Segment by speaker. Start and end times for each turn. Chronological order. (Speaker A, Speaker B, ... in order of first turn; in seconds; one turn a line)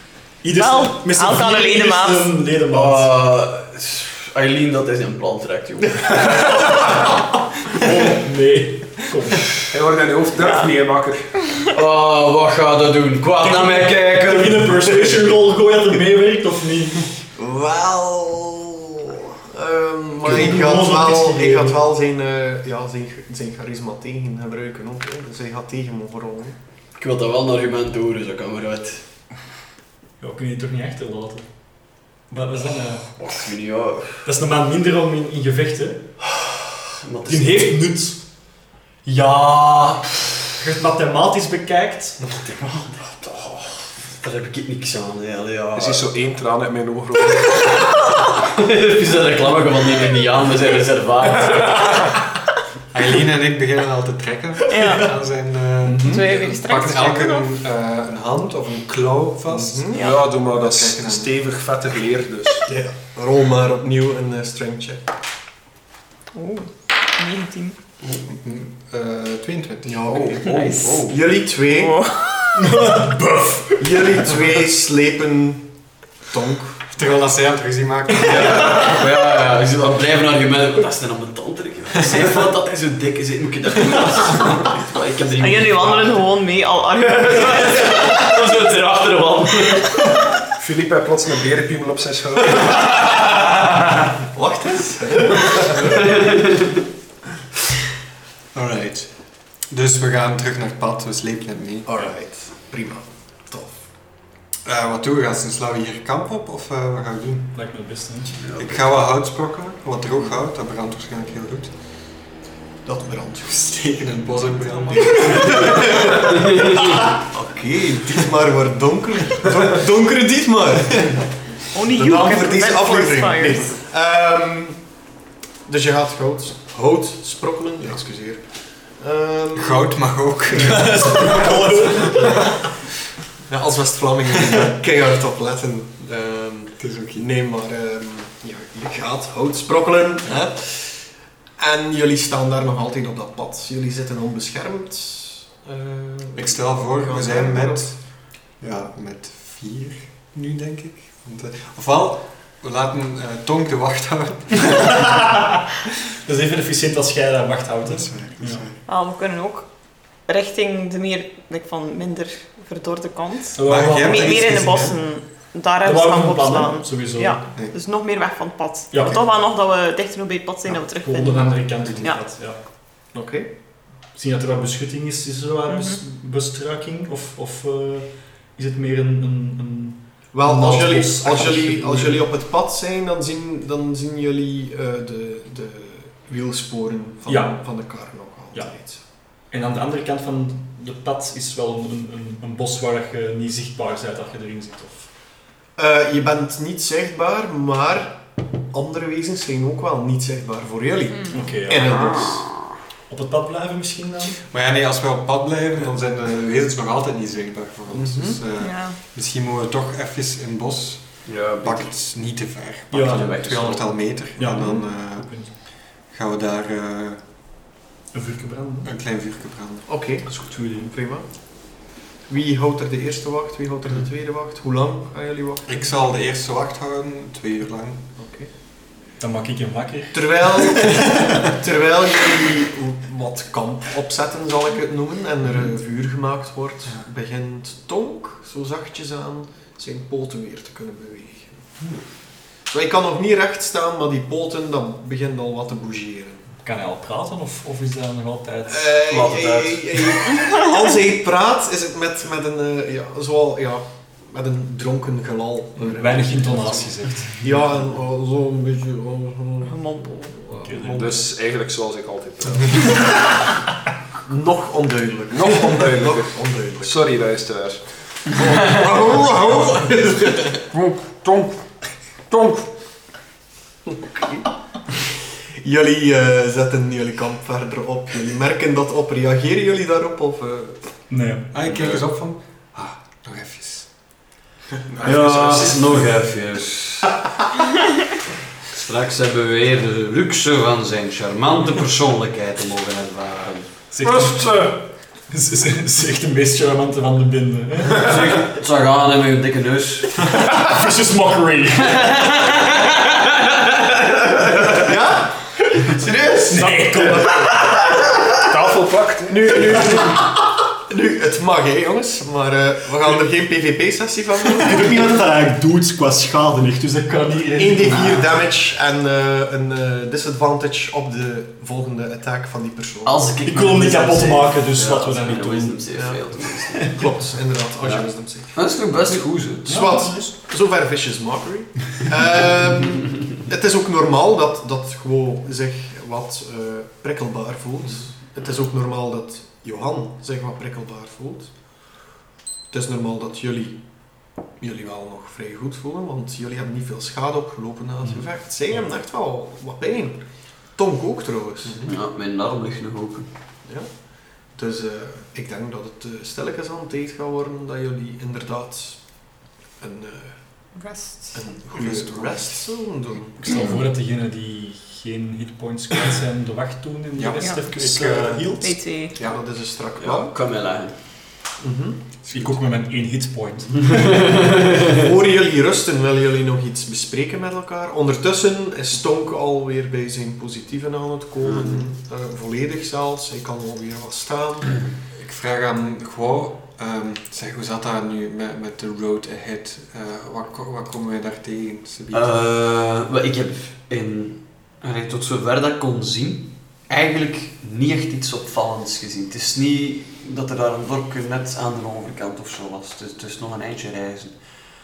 Speaker A: 0.4-3.1
Speaker B: 0.5-2.3
Speaker C: 2.7-6.6
Speaker A: 6.4-7.1
Speaker A: 7.7-9.7
Speaker D: 9.7-11.3
Speaker B: 10.4-10.7
Speaker C: 11.7-15.2
Speaker A: 13.4-17.1
Speaker E: 17.3-26.6
Speaker A: 20.2-21.8
Speaker C: 26.9-29.0
Speaker A: 30.2-33.2
Speaker C: 33.2-34.2
Speaker A: 34.2-36.1
Speaker C: 37.0-37.8
Speaker A: 37.3-38.2
Speaker A: 39.0-39.9
Speaker C: 39.1-40.0
Speaker A: 40.6-42.2
Speaker C: 42.2-46.0
Speaker D: 45.7-47.7
Speaker C: 48.4-52.0
Speaker F: 52.9-61.4
Speaker B: 54.7-55.1
Speaker A: 55.9-56.2
Speaker B: 56.0-57.5
Speaker E: 59.5-60.0
Speaker D: 59.9-62.7
Speaker B: 59.9-60.2
Speaker E: 62.6-65.1
Speaker B: 66.3-67.8
Speaker F: 68.2-70.2
Speaker E: 69.8-72.0
Speaker C: 70.1-71.2
Speaker B: 70.5-70.9
Speaker B: 71.7-72.6
Speaker A: 72.5-74.2
Speaker E: 73.8-75.7
Speaker E: 76.2-76.8
Speaker F: 76.9-79.0
Speaker C: 78.2-86.2
Speaker B: 85.4-88.2
Speaker C: 87.2-90.0
Speaker D: 90.6-93.0
Speaker E: 94.3-96.0
Speaker C: 95.8-96.8
Speaker F: 98.5-102.1
Speaker E: 101.8-103.9
Speaker F: 104.6-107.5
Speaker A: 107.5-108.5
Speaker C: 108.4-108.8
Speaker F: 108.5-111.7
Speaker E: 112.8-114.1
Speaker F: 113.7-116.7
Speaker E: 114.9-121.2
Speaker C: 116.6-117.0
Speaker B: 121.7-123.8
Speaker E: 121.8-124.9
Speaker E: 125.7-129.9
Speaker F: 129.6-132.6
Speaker A: 130.6-132.5
Speaker E: 131.1-132.2
Speaker E: 133.5-147.9
Speaker F: 136.8-137.2
Speaker F: 146.3-155.2
Speaker A: 154.8-155.4
Speaker A: 156.2-158.7
Speaker F: 157.8-158.8
Speaker B: 158.8-172.2
Speaker A: 163.6-164.7
Speaker F: 163.6-165.0
Speaker A: 165.8-167.5
Speaker A: 168.9-169.2
Speaker A: 170.9-172.6
Speaker E: 173.1-173.5
Speaker A: 174.1-182.2
Speaker B: 175.7-176.0
Speaker E: 180.3-189.0
Speaker A: 187.3-195.1
Speaker E: 195.8-202.5
Speaker B: 201.1-201.4
Speaker A: 201.3-202.0
Speaker A: 203.1-204.4
Speaker F: 204.4-217.2
Speaker E: 207.9-208.4
Speaker B: 208.6-209.0
Speaker C: 211.2-211.9
Speaker A: 212.9-213.3
Speaker C: 213.0-213.8
Speaker A: 214.3-215.6
Speaker A: 218.1-218.9
Speaker F: 218.8-219.9
Speaker E: 219.9-225.8
Speaker A: 220.2-220.9
Speaker F: 225.7-228.1
Speaker E: 228.2-228.5
Speaker A: 229.2-231.3
Speaker E: 230.1-241.6
Speaker E: 242.7-246.5
Speaker A: 246.6-249.0
Speaker E: 248.7-261.2
Speaker C: 249.1-250.0
Speaker A: 255.8-257.5
Speaker B: 259.6-260.4
Speaker A: 260.5-261.1
Speaker D: 260.8-263.0
Speaker E: 264.2-267.0
Speaker D: 265.3-268.3
Speaker E: 268.3-270.6
Speaker D: 270.7-271.6
Speaker D: 272.3-272.7
Speaker E: 273.9-274.5
Speaker E: 275.6-280.9
Speaker A: 281.1-281.5
Speaker F: 281.5-283.9
Speaker D: 285.0-286.0
Speaker C: 285.0-287.1
Speaker C: 288.7-293.7
Speaker A: 293.9-294.7
Speaker D: 294.0-294.8
Speaker A: 295.2-298.1
Speaker C: 298.0-300.2
Speaker A: 300.4-302.3
Speaker C: 301.8-304.6
Speaker E: 304.7-305.4
Speaker C: 305.9-306.8
Speaker A: 306.5-307.6
Speaker D: 307.0-307.3
Speaker D: 308.4-309.6
Speaker E: 309.3-315.2
Speaker A: 314.5-318.2
Speaker E: 317.5-323.2
Speaker C: 323.0-327.0
Speaker A: 323.4-325.9
Speaker E: 325.9-328.5
Speaker C: 327.8-329.9
Speaker E: 329.7-341.5
Speaker A: 329.7-330.3
Speaker E: 342.7-343.8
Speaker E: 344.6-350.2
Speaker E: 350.7-351.9
Speaker C: 351.9-353.3
Speaker E: 353.6-353.9
Speaker E: 354.5-359.2
Speaker E: 359.8-360.4
Speaker B: 360.7-361.4
Speaker E: 361.3-363.7
Speaker F: 361.7-362.6
Speaker A: 363.4-368.9
Speaker F: 367.1-368.6
Speaker B: 368.6-369.1
Speaker F: 369.1-369.4
Speaker E: 369.2-370.3
Speaker C: 370.0-370.9
Speaker E: 371.6-372.4
Speaker A: 372.3-374.6
Speaker C: 373.9-375.0
Speaker E: 374.8-384.8
Speaker C: 381.4-381.8
Speaker F: 385.1-392.3
Speaker C: 392.1-404.4